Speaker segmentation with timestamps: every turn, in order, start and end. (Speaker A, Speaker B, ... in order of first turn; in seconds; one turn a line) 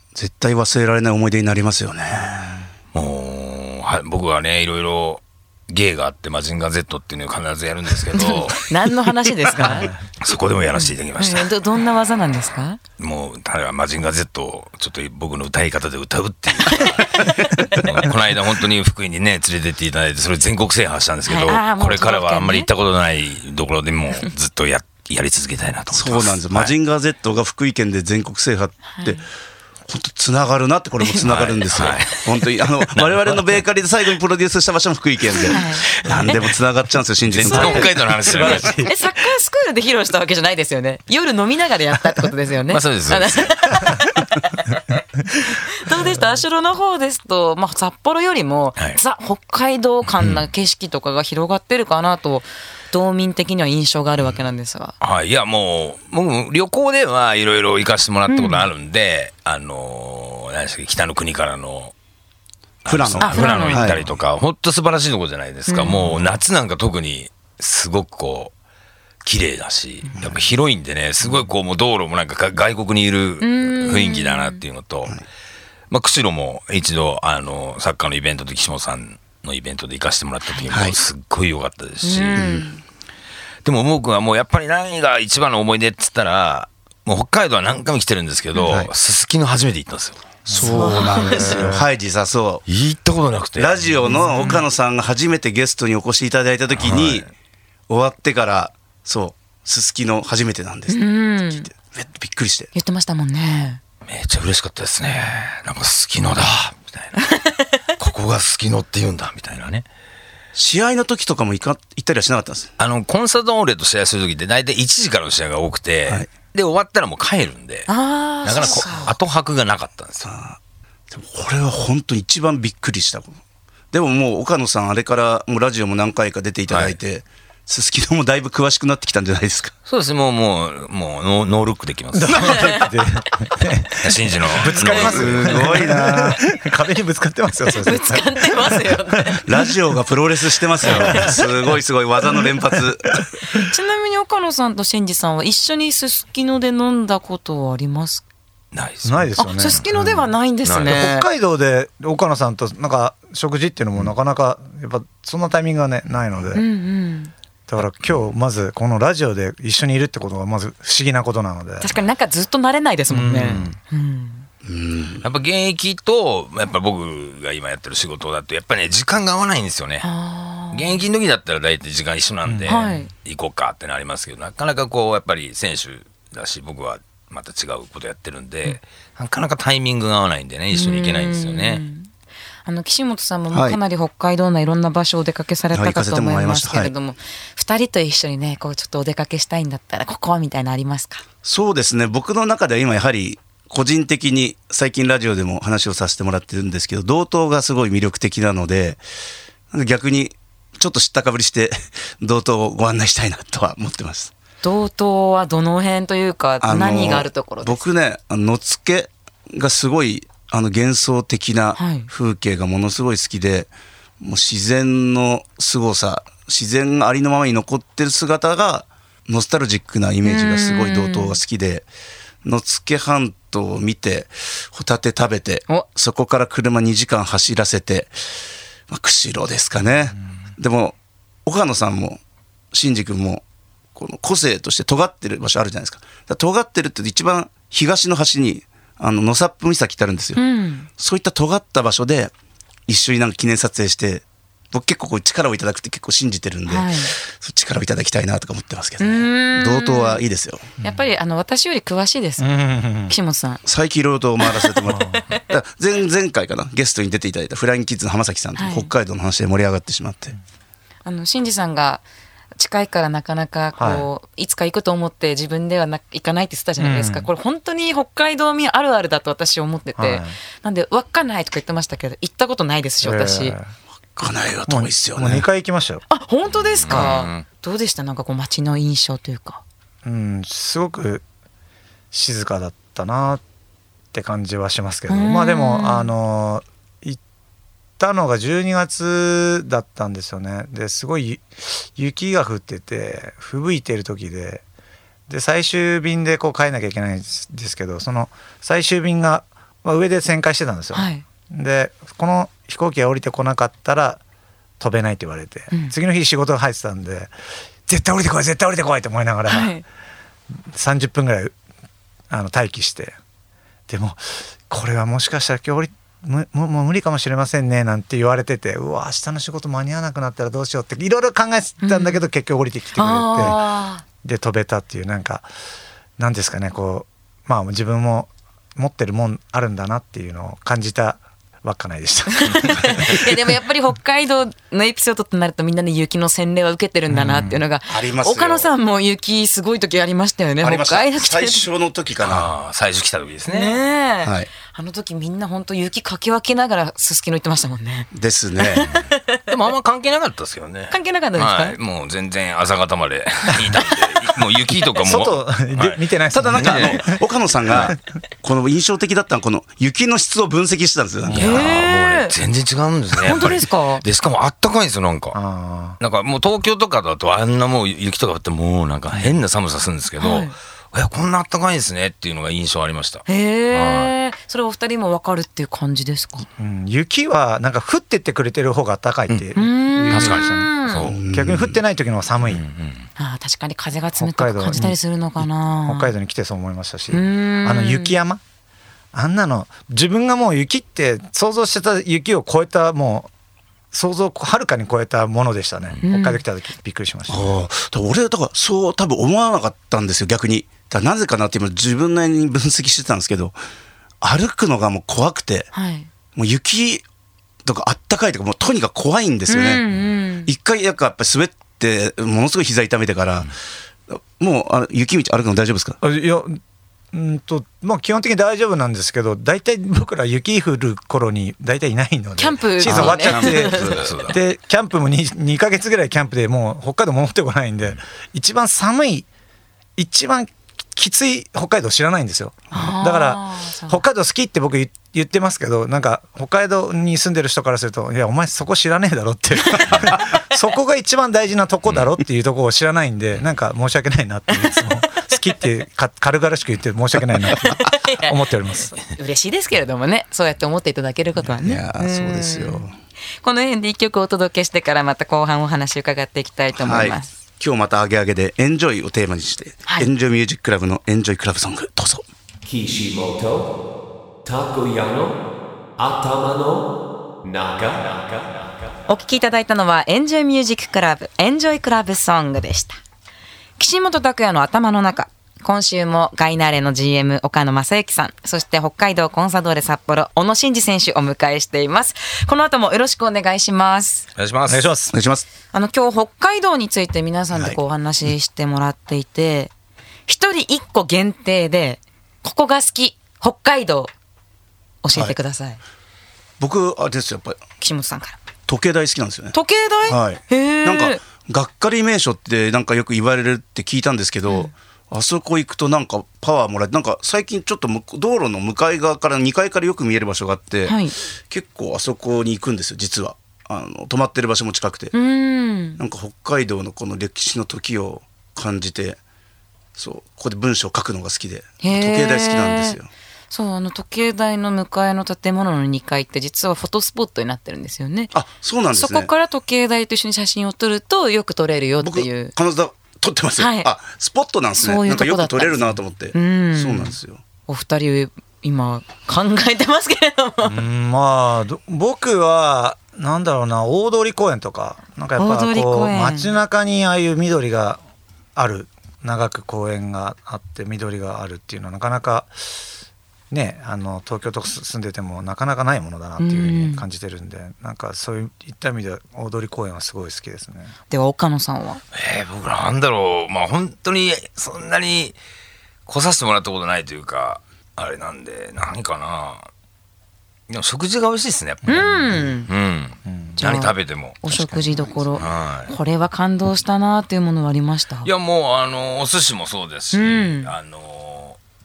Speaker A: 0.1-2.7
Speaker B: 2.9-8.7
Speaker C: 8.1-9.9
Speaker D: 9.6-10.0
Speaker B: 10.2-11.5
Speaker C: 10.7-12.8
Speaker B: 13.0-26.7
Speaker C: 16.7-17.7
Speaker C: 21.3-22.7
Speaker A: 25.9-29.2
Speaker C: 28.9-29.2
Speaker A: 29.9-38.6
Speaker B: 31.2-33.6
Speaker C: 35.5-36.0
Speaker B: 37.2-38.9
Speaker C: 37.5-37.8
Speaker D: 37.5-38.9
Speaker C: 38.8-44.8
Speaker B: 42.7-43.8
Speaker C: 45.4-54.9
Speaker B: 50.2-50.4
Speaker B: 55.0-61.9
Speaker C: 58.3-58.6
Speaker B: 62.8-68.5
Speaker A: 62.9-64.1
Speaker C: 63.2-63.9
Speaker C: 65.7-66.1
Speaker B: 69.2-75.2
Speaker A: 70.2-70.5
Speaker C: 73.4-74.6
Speaker B: 75.9-82.5
Speaker C: 80.5-80.7
Speaker A: 80.7-81.0
Speaker C: 82.0-82.8
Speaker A: 82.3-82.7
Speaker B: 83.6-90.4
Speaker D: 90.5-91.8
Speaker A: 90.5-92.6
Speaker C: 90.5-91.7
Speaker B: 92.7-94.0
Speaker A: 93.6-97.3
Speaker C: 94.1-94.6
Speaker B: 96.7-97.3
Speaker A: 97.9-102.7
Speaker C: 100.9-101.7
Speaker C: 102.7-103.8
Speaker B: 104.1-107.2
Speaker C: 107.2-107.8
Speaker B: 108.0-109.8
Speaker A: 110.5-112.7
Speaker B: 112.8-117.9
Speaker C: 117.9-119.1
Speaker B: 118.4-120.3
Speaker A: 120.2-120.6
Speaker A: 121.1-123.4
Speaker A: 123.9-129.7
Speaker B: 126.7-127.0
Speaker B: 129.9-132.8
Speaker D: 132.1-139.4
Speaker C: 132.4-132.8
Speaker B: 133.9-135.9
Speaker A: 134.7-136.4
Speaker C: 137.8-139.4
Speaker A: 139.4-143.2
Speaker D: 140.8-141.4
Speaker C: 140.9-141.2
Speaker C: 143.5-148.2
Speaker B: 148.7-150.0
Speaker D: 149.0-150.2
Speaker C: 149.4-151.3
Speaker B: 150.6-151.0
Speaker D: 150.8-156.6
Speaker C: 156.5-157.3
Speaker D: 157.7-161.9
Speaker C: 161.8-164.5
Speaker D: 163.1-163.8
Speaker A: 164.6-165.2
Speaker B: 165.2-170.1
Speaker C: 170.0-171.0
Speaker B: 170.7-181.8
Speaker D: 172.4-172.9
Speaker C: 172.7-173.1
Speaker C: 180.7-182.1
Speaker C: 182.6-191.2
Speaker A: 183.5-183.8
Speaker A: 185.7-186.9
Speaker A: 191.4-199.0
Speaker A: 199.7-204.3
Speaker C: 204.6-207.8
Speaker A: 206.6-221.9
Speaker C: 211.8-212.1
Speaker C: 220.2-221.4
Speaker A: 222.4-228.1
Speaker A: 228.9-232.2
Speaker A: 232.7-233.4
Speaker A: 233.9-240.4
Speaker C: 240.3-240.9
Speaker A: 241.0-242.3
Speaker A: 242.9-250.7
Speaker C: 246.7-247.1
Speaker C: 249.0-250.2
Speaker C: 250.8-252.5
Speaker D: 252.4-253.1
Speaker C: 253.1-253.6
Speaker A: 253.6-260.3
Speaker C: 254.4-255.4
Speaker D: 254.9-255.2
Speaker C: 258.6-258.9
Speaker C: 261.0-262.0
Speaker C: 262.6-273.6
Speaker D: 263.8-264.1
Speaker D: 266.8-267.3
Speaker D: 269.9-270.4
Speaker D: 273.0-273.7
Speaker A: 274.1-275.4
Speaker D: 274.7-276.0
Speaker C: 276.1-279.6
Speaker B: 276.8-277.4
Speaker D: 280.0-281.2
Speaker D: 282.1-283.4
Speaker D: 284.1-287.2
Speaker C: 285.1-286.1
Speaker D: 288.0-294.6
Speaker D: 295.3-304.2
Speaker C: 300.9-301.2
Speaker D: 304.8-307.3
Speaker D: 307.9-309.7
Speaker C: 309.5-309.8
Speaker D: 310.7-311.5
Speaker D: 312.3-313.2
Speaker D: 313.9-323.6
Speaker C: 321.8-322.2
Speaker C: 322.9-324.0
Speaker D: 324.2-325.5
Speaker D: 326.2-333.3
Speaker C: 332.3-341.6
Speaker D: 337.1-337.6
Speaker A: 337.9-338.7
Speaker A: 340.6-342.5
Speaker B: 342.2-343.8
Speaker C: 343.4-349.4
Speaker A: 344.2-344.5
Speaker A: 348.1-348.9
Speaker B: 349.5-357.1
Speaker C: 350.9-351.8
Speaker D: 355.0-358.0
Speaker A: 356.3-361.5
Speaker D: 361.2-361.6
Speaker B: 361.3-365.4
Speaker C: 361.4-362.3
Speaker C: 363.1-364.0
Speaker D: 365.3-366.0
Speaker B: 366.0-374.1
Speaker D: 369.1-369.4
Speaker C: 370.2-370.5
Speaker C: 373.3-376.4
Speaker D: 376.6-382.6
Speaker C: 379.6-381.1
Speaker B: 380.1-381.1
Speaker A: 381.0-381.8
Speaker B: 382.4-383.1
Speaker C: 383.2-386.1
Speaker D: 384.2-388.4
Speaker C: 387.1-388.2
Speaker D: 389.1-393.3
Speaker D: 393.9-397.6
Speaker C: 396.0-396.4
Speaker A: 397.3-403.6
Speaker A: 404.2-405.7
Speaker C: 405.7-406.1
Speaker A: 406.3-407.0
Speaker A: 407.6-409.8
Speaker C: 409.5-410.5
Speaker A: 410.4-413.5
Speaker A: 414.1-416.0
Speaker D: 416.0-416.6
Speaker D: 417.1-429.3
Speaker C: 422.4-424.1
Speaker A: 422.8-424.1
Speaker B: 423.8-424.4
Speaker D: 429.9-448.9
Speaker C: 432.7-434.0
Speaker C: 447.5-452.9
Speaker A: 451.6-452.9
Speaker C: 453.4-457.3
Speaker A: 456.8-462.2
Speaker E: 462.6-463.7
Speaker E: 464.4-465.4
Speaker E: 466.0-466.9
Speaker E: 467.4-468.9
Speaker C: 469.1-473.0
Speaker C: 473.8-484.3
Speaker B: 484.4-484.9
Speaker D: 484.7-485.1
Speaker A: 485.1-485.4
Speaker C: 485.7-489.7
Speaker C: 490.3-494.1
Speaker C: 495.0-495.8
Speaker A: 496.6-497.6
Speaker C: 497.8-498.4
Speaker A: 498.7-499.5
Speaker C: 499.5-501.2
Speaker A: 500.1-515.1
Speaker C: 510.9-511.1
Speaker C: 515.1-516.0
Speaker A: 516.0-519.2
Speaker A: 520.0-523.1
Speaker C: 521.8-523.0
Speaker C: 523.5-528.3
Speaker A: 528.3-529.3
Speaker C: 528.9-532.5
Speaker A: 532.0-537.4
Speaker C: 533.6-533.9
Speaker C: 534.8-537.1
Speaker C: 537.7-540.8
Speaker D: 540.6-548.0
Speaker C: 545.4-546.5
Speaker D: 548.5-552.8
Speaker D: 553.5-560.9
Speaker C: 556.4-557.0
Speaker C: 561.1-562.0
Speaker B: 562.1-565.4
Speaker B: 566.0-569.7
Speaker B: 570.7-572.1
Speaker D: 571.9-572.4
Speaker C: 571.9-572.7
Speaker B: 572.7-574.4
Speaker D: 573.2-573.6
Speaker C: 573.6-578.3
Speaker B: 575.4-575.9
Speaker B: 578.2-581.6
Speaker C: 580.1-580.7